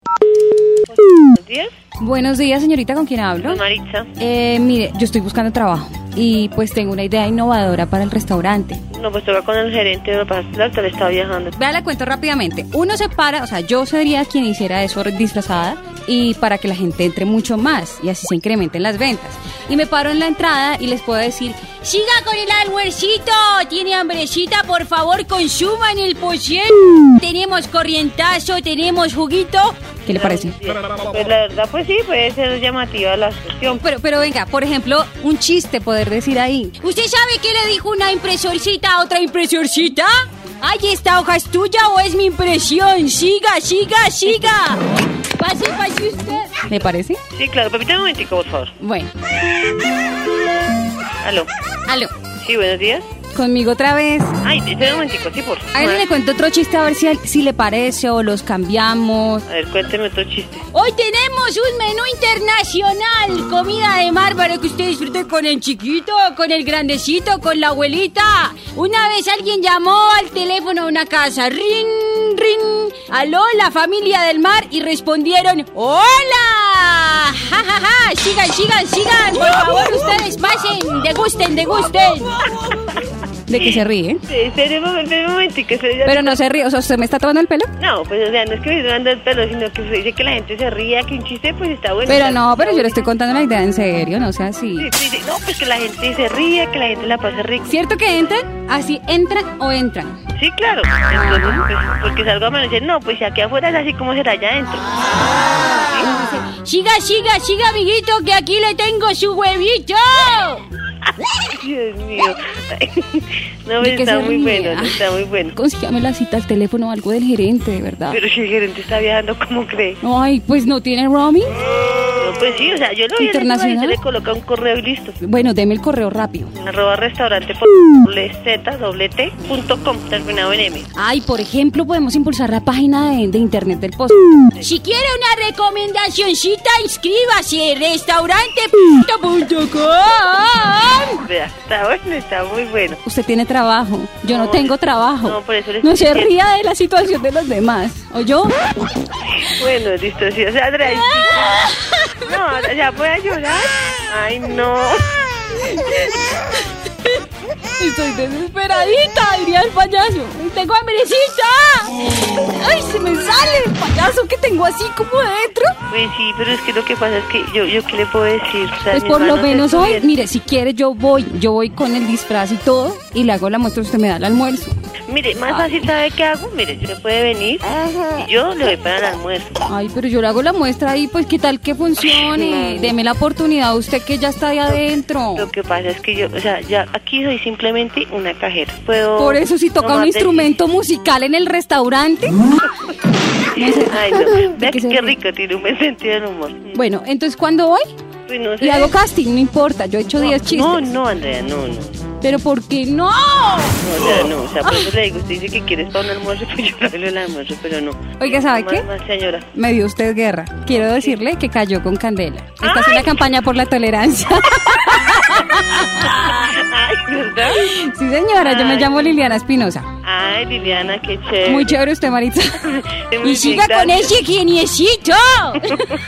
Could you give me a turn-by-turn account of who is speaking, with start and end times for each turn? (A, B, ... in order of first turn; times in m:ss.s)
0:01.3-0:01.7 A
0:02.0-0:03.6 B
0:03.4-0:04.1 A
0:04.2-0:08.8 B
0:08.9-0:11.6 A
0:11.6-0:30.6 B
0:30.1-0:33.8 A
0:33.8-0:44.8 B
0:45.4-0:47.2 B
0:47.3-0:48.7 A
0:48.8-0:49.1 B
0:51.2-0:51.5 A
0:52.4-0:53.1 A
0:53.3-0:54.4 B
0:54.4-0:56.1 A
0:55.7-0:59.4 B
0:59.5-1:00.7 A
1:00.7-1:22.3 B
1:23.5-1:24.2 B
1:23.6-1:26.4 A
1:26.0-1:27.7 B
1:27.8-1:33.0 A
1:32.1-1:34.9 B
1:34.8-1:37.8 A
1:37.7-1:40.2 B
1:40.4-1:45.0 A
1:41.1-1:41.6 B
1:45.9-1:50.6 B
1:51.5-1:55.6 A
1:53.8-1:58.2 B
1:58.1-2:00.0 A
2:00.0-2:01.5 B
2:02.2-2:05.2 A
2:03.2-2:04.0 B
2:05.2-2:06.5 B
2:06.6-2:10.9 A
2:11.0-2:21.2 B
2:21.2-2:23.0 A
2:23.0-2:28.5 B
2:24.3-2:26.4 A
2:29.4-2:31.6 A
2:30.9-2:32.2 B
2:32.2-2:35.1 A
2:35.7-2:36.2 B
2:37.8-2:45.7 B
2:45.9-2:50.1 A
2:48.9-2:54.7 B
2:55.1-2:59.7 A
2:55.5-2:55.8 B
2:59.7-3:05.5 B
3:02.1-3:02.9 A
3:05.4-3:10.5 A
3:09.2-3:12.4 B
3:13.6-3:15.1 B
3:13.6-3:16.8 A
3:16.8-3:17.9 B
3:18.3-3:19.0 A
3:18.6-3:20.9 B
3:20.2-3:22.0 A
3:22.2-3:23.9 B
3:23.8-3:29.5 A
3:24.6-3:24.9 B
3:28.2-3:28.9 B
3:29.5-3:36.3 B
3:30.7-3:31.2 A
3:32.6-3:33.1 A
3:36.1-3:37.7 A
3:37.6-3:39.9 B
3:38.4-3:39.1 A
3:40.0-3:41.8 A
3:41.4-3:42.6 B
3:42.7-3:44.2 A
3:43.2-3:45.9 B